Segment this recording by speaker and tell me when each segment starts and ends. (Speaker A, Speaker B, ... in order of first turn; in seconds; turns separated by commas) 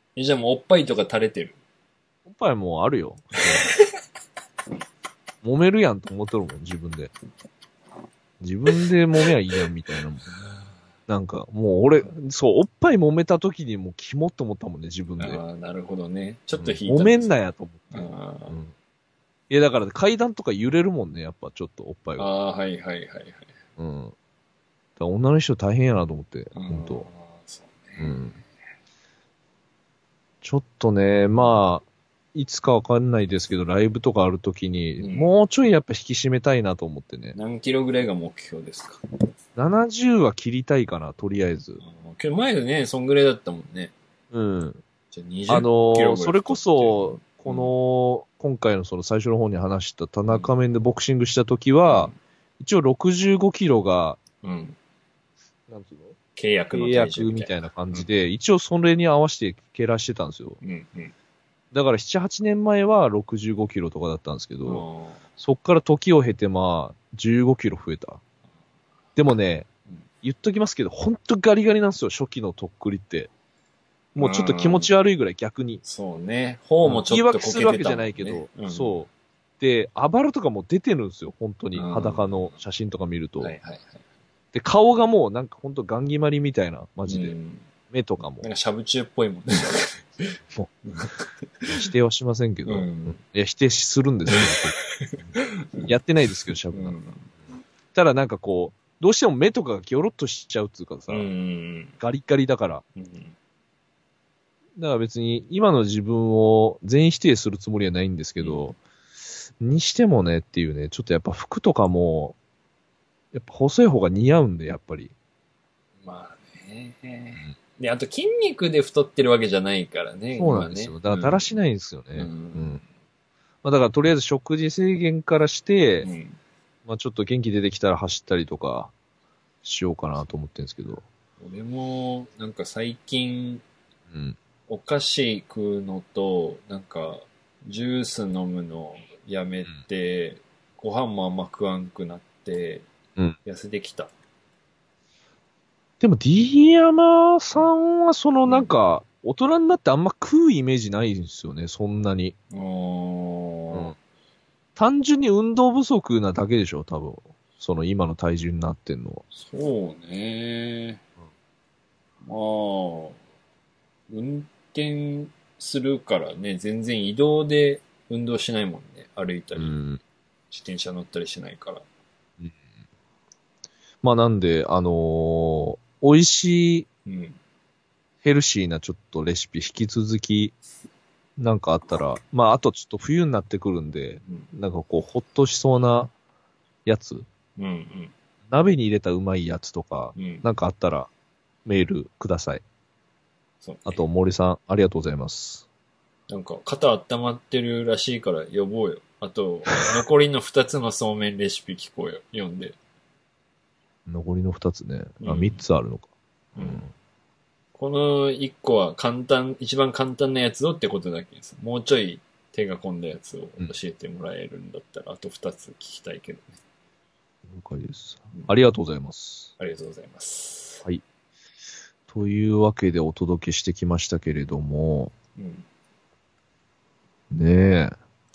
Speaker A: 0.2-1.6, Speaker B: 2.3-3.7, Speaker B: 5.4-7.1, Speaker B: 8.4-10.3, Speaker B: 11.1-15.4, Speaker A: 15.2-17.3, Speaker B: 16.6-18.7, Speaker A: 17.9-18.6, Speaker B: 19.5-22.3, Speaker A: 22.2-23.5, Speaker B: 23.8-24.1, Speaker B: 25.0-27.1, Speaker A: 26.5-28.4, Speaker B: 28.0-28.4, Speaker B: 30.4-31.8, Speaker B: 32.4-37.4, Speaker A: 35.0-35.3, Speaker A: 37.4-39.0, Speaker B: 39.6-41.8, Speaker A: 41.8-43.9, Speaker B: 44.3-44.8, Speaker A: 45.1-47.7, Speaker B: 45.5-54.2, Speaker A: 51.9-52.2, Speaker A: 54.4-54.8, Speaker B: 55.7-56.2, Speaker A: 56.4-58.1, Speaker B: 56.7-60.6, Speaker A: 60.6-61.1, Speaker B: 61.7-64.8, Speaker A: 64.7-65.2, Speaker B: 65.4-68.2, Speaker B: 69.2-69.7, Speaker B: 70.2-73.3, Speaker B: 74.2-75.8, Speaker A: 74.2-74.9, Speaker A: 75.8-79.0, Speaker B: 76.8-79.1, Speaker B: 79.6-83.5, Speaker A: 81.8-82.6, Speaker A: 83.4-84.0, Speaker B: 84.5-87.4, Speaker A: 87.1-87.7, Speaker B: 87.9-88.5, Speaker A: 88.4-91.8, Speaker B: 91.7-95.3, Speaker A: 92.7-93.2, Speaker A: 94.3-95.9, Speaker B: 95.9-97.0, Speaker A: 96.7-97.3, Speaker B: 97.9-101.3, Speaker A: 101.1-102.0, Speaker B: 102.0-102.8, Speaker A: 103.0-103.3, Speaker B: 104.8-108.8, Speaker A: 108.4-108.7, Speaker B: 109.6-112.4, Speaker B: 113.3-115.1, Speaker A: 116.0-121.5, Speaker B: 120.4-122.8, Speaker A: 122.2-122.8, Speaker B: 123.6-126.1, Speaker A: 126.0-126.4, Speaker B: 126.9-128.9, Speaker B: 129.6-131.1, Speaker A: 131.4-133.6, Speaker B: 134.1-134.4, Speaker A: 134.7-142.9, Speaker A: 143.4-144.1, Speaker B: 146.0-152.3, Speaker A: 148.4-148.7, Speaker A: 152.5-153.9, Speaker B: 154.8-159.2, Speaker A: 159.3-161.0, Speaker A: 162.2-163.2, Speaker A: 164.1-169.8, Speaker B: 169.6-170.0, Speaker A: 170.5-171.8, Speaker B: 174.0-176.9, Speaker A: 177.1-177.4, Speaker B: 178.2-180.5, Speaker B: 181.4-186.1, Speaker A: 184.2-184.5, Speaker B: 186.9-187.3, Speaker A: 187.6-188.1, Speaker B: 188.5-191.1, Speaker A: 190.2-190.4, Speaker B: 191.7-192.6, Speaker A: 193.6-194.0, Speaker B: 193.9-195.7, Speaker A: 196.3-202.8, Speaker B: 204.1-206.9, Speaker A: 205.2-205.6, Speaker A: 206.6-206.9, Speaker A: 207.8-216.6, Speaker B: 217.5-219.5, Speaker A: 219.6-220.9, Speaker B: 222.1-225.1, Speaker A: 225.4-225.7, Speaker B: 227.3-227.9